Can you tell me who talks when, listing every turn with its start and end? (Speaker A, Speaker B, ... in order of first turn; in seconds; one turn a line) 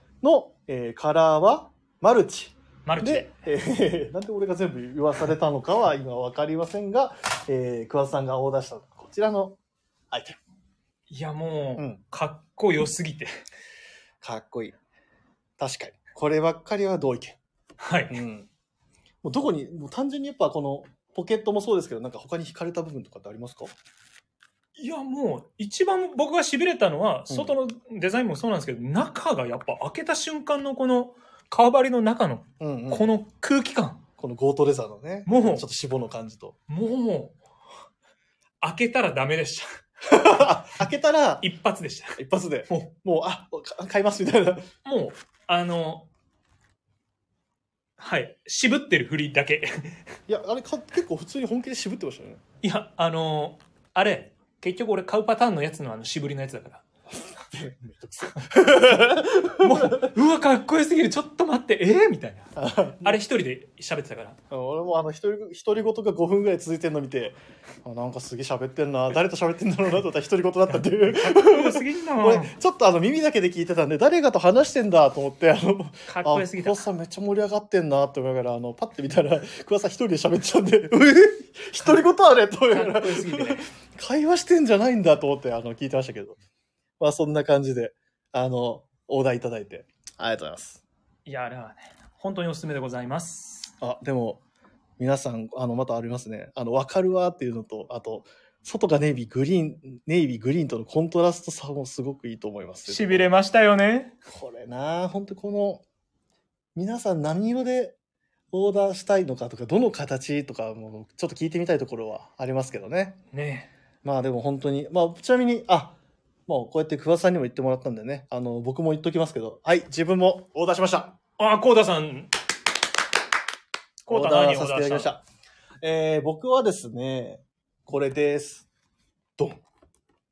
Speaker A: 0.2-9.6
Speaker B: 2.9-3.3
Speaker A: 10.1-10.4
Speaker B: 11.1-13.3
Speaker A: 14.2-14.8
Speaker A: 15.6-17.4
Speaker B: 17.8-18.2
Speaker A: 18.1-18.5
Speaker A: 19.2-23.7
Speaker B: 24.8-34.0
Speaker A: 32.6-33.1
Speaker A: 34.2-36.5
Speaker B: 35.2-35.6
Speaker B: 36.7-37.4
Speaker B: 38.6-39.7
Speaker A: 40.0-41.5
Speaker B: 41.4-42.9
Speaker A: 42.1-44.7
Speaker B: 44.8-46.1
Speaker B: 48.0-50.0
Speaker A: 50.3-52.4
Speaker B: 52.6-56.8
Speaker A: 57.5-60.1
Speaker B: 59.6-64.4
Speaker A: 62.5-63.2
Speaker A: 64.5-86.4
Speaker B: 70.7-72.5
Speaker B: 76.1-76.8
Speaker B: 82.7-83.7
Speaker A: 87.0-90.8
Speaker B: 91.2-93.7
Speaker A: 93.8-94.4
Speaker A: 95.0-103.3
Speaker B: 102.9-104.1
Speaker A: 104.3-105.8
Speaker A: 106.8-108.0
Speaker A: 108.5-113.2
Speaker B: 113.3-113.7
Speaker A: 114.0-116.0
Speaker A: 116.5-121.1
Speaker B: 121.4-122.3
Speaker B: 124.0-125.1
Speaker A: 124.1-125.2
Speaker A: 125.8-128.7